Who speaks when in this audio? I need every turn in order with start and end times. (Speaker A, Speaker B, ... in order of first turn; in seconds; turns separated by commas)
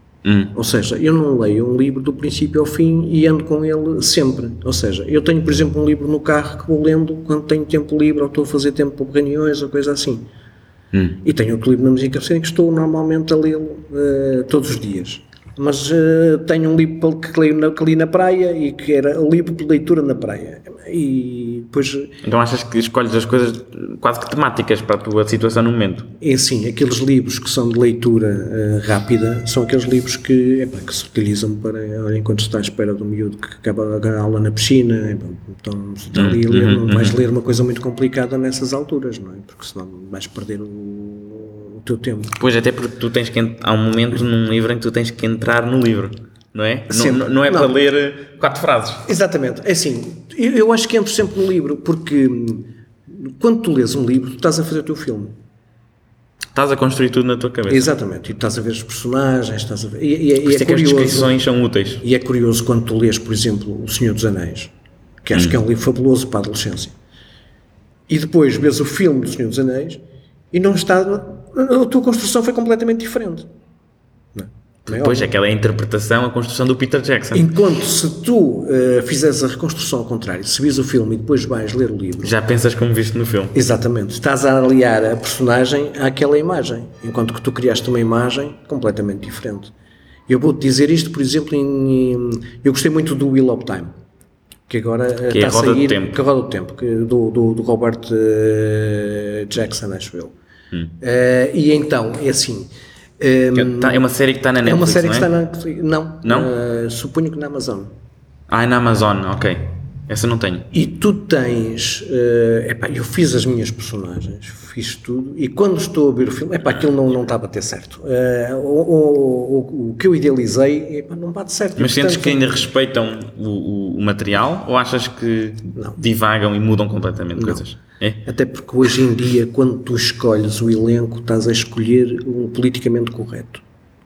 Speaker A: 0.2-0.5, Speaker B: 0.5-10.2, Speaker A: 10.9-11.2, Speaker B: 11.2-22.2, Speaker A: 22.2-26.1, Speaker B: 26.2-42.4, Speaker A: 36.1-37.2, Speaker A: 42.4-49.0, Speaker B: 46.9-47.8, Speaker B: 49.0-55.3, Speaker A: 56.5-57.9, Speaker B: 57.7-61.4, Speaker A: 60.4-62.0, Speaker B: 62.0-64.7, Speaker B: 65.2-66.9, Speaker B: 68.1-70.0, Speaker B: 70.5-73.5, Speaker B: 74.3-75.3, Speaker A: 74.8-77.5, Speaker B: 77.3-82.3, Speaker A: 82.2-83.5, Speaker B: 83.5-89.7, Speaker B: 90.3-93.9, Speaker B: 94.7-100.3, Speaker A: 95.3-96.2, Speaker B: 101.0-102.7, Speaker B: 103.2-104.0, Speaker A: 103.5-105.3, Speaker B: 104.6-107.9, Speaker A: 106.2-106.5, Speaker A: 108.5-110.7, Speaker B: 110.7-122.7, Speaker A: 121.8-128.2, Speaker B: 125.7-126.0, Speaker B: 127.3-127.6, Speaker B: 128.2-133.6